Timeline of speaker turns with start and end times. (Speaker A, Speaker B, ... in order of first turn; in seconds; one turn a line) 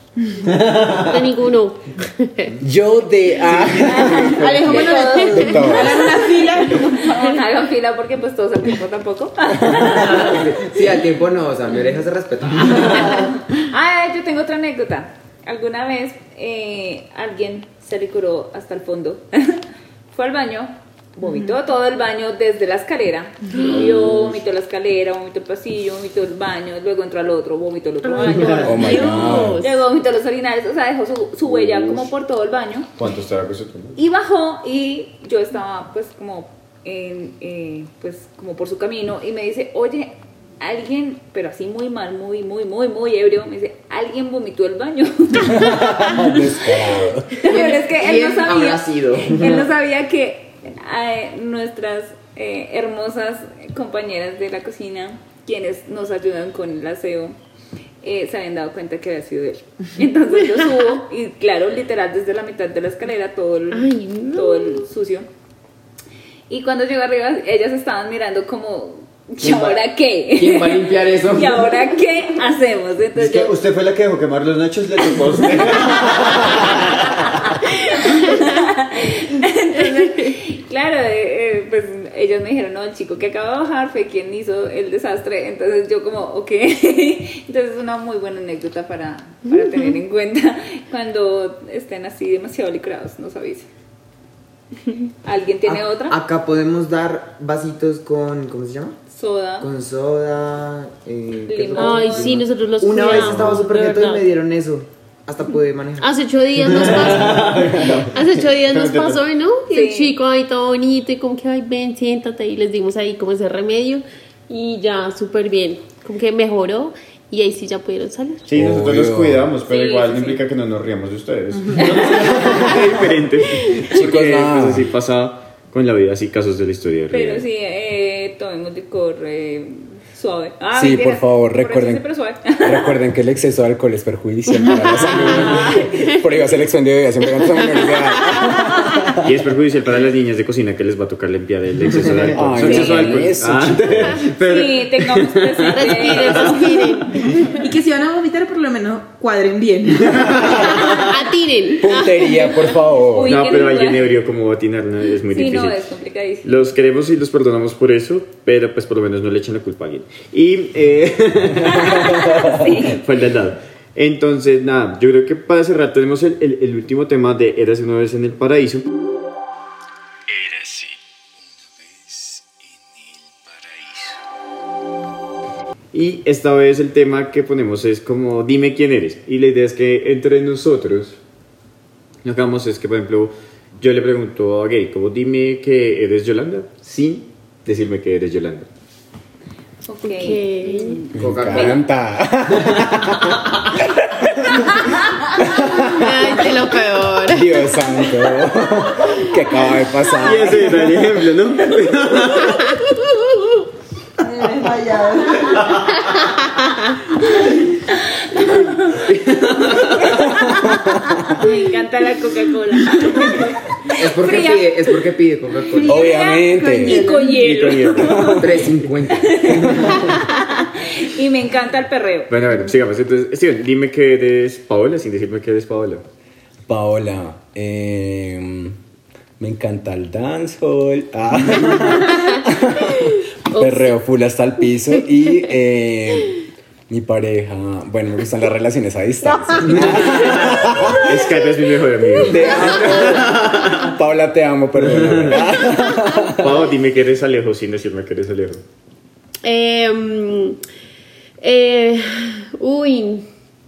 Speaker A: 0.4-1.3
Speaker B: 1.0-2.6
Speaker C: 2.6-6.0
Speaker D: 3.8-10.4
Speaker E: 4.2-7.4
Speaker B: 4.9-5.6
Speaker F: 9.9-13.3
Speaker D: 12.8-32.9
Speaker F: 23.6-24.4
Speaker B: 28.0-29.8
Speaker C: 28.6-29.6
Speaker F: 31.5-32.0
Speaker A: 33.0-34.0
Speaker D: 33.9-46.4
Speaker C: 45.4-47.4
Speaker D: 47.3-57.4
Speaker F: 47.4-49.7
Speaker D: 58.0-65.3
Speaker B: 60.4-60.7
Speaker B: 63.7-64.9
Speaker D: 66.5-73.5
Speaker F: 69.4-69.8
Speaker F: 70.3-71.8
Speaker A: 73.2-77.5
Speaker D: 77.4-93.7
Speaker B: 80.0-80.3
Speaker B: 89.5-90.0
Speaker D: 95.2-96.2
Speaker F: 95.6-99.0
Speaker D: 99.1-99.7
Speaker F: 99.6-106.1
Speaker D: 101.5-102.4
Speaker B: 101.8-104.2
Speaker D: 103.0-103.4
Speaker B: 106.0-118.5
Speaker A: 106.6-109.2
Speaker F: 106.7-108.1
Speaker D: 109.7-110.2
Speaker A: 118.5-127.4
Speaker C: 118.5-119.5
Speaker D: 119.7-120.4
Speaker B: 122.5-122.9
Speaker B: 123.6-123.9
Speaker C: 123.9-124.9
Speaker D: 127.1-133.0
Speaker C: 130.7-139.3
Speaker B: 135.1-136.4
Speaker D: 135.7-136.1
Speaker B: 137.3-138.4
Speaker A: 139.2-147.4
Speaker F: 142.0-142.5
Speaker C: 142.3-144.2
Speaker D: 142.6-143.2
Speaker D: 144.4-147.4
Speaker B: 145.7-147.5
Speaker E: 147.5-150.6
Speaker A: 150.1-150.8
Speaker B: 150.5-152.6
Speaker C: 151.8-153.4
Speaker D: 152.3-154.1
Speaker A: 153.2-155.9
Speaker D: 155.3-156.5
Speaker A: 156.4-168.9
Speaker D: 161.8-163.0
Speaker A: 170.3-170.8
Speaker A: 175.9-181.2
Speaker A: 182.2-188.7
Speaker D: 189.8-191.8
Speaker B: 190.0-191.1
Speaker C: 191.1-193.8
Speaker F: 191.2-191.8
Speaker D: 194.5-195.0
Speaker C: 195.4-196.5
Speaker B: 195.7-197.7
Speaker C: 197.2-201.0
Speaker A: 200.2-202.7
Speaker B: 202.5-202.8
Speaker E: 204.2-205.8
Speaker D: 207.9-209.0
Speaker F: 208.9-210.4
Speaker C: 210.3-211.4
Speaker D: 211.3-214.8
Speaker F: 213.9-216.0
Speaker D: 215.8-222.3
Speaker C: 215.8-217.0
Speaker E: 215.9-217.5
Speaker A: 217.3-218.7
Speaker F: 218.2-220.1
Speaker A: 222.3-226.0
Speaker C: 226.7-228.8
Speaker C: 229.4-236.4
Speaker B: 233.0-233.9
Speaker C: 236.9-241.2
Speaker B: 239.2-240.2
Speaker A: 239.6-243.9
Speaker C: 242.2-246.6
Speaker B: 242.2-242.8
Speaker A: 244.8-245.6
Speaker A: 246.2-248.6
Speaker B: 249.4-250.6
Speaker B: 251.4-253.2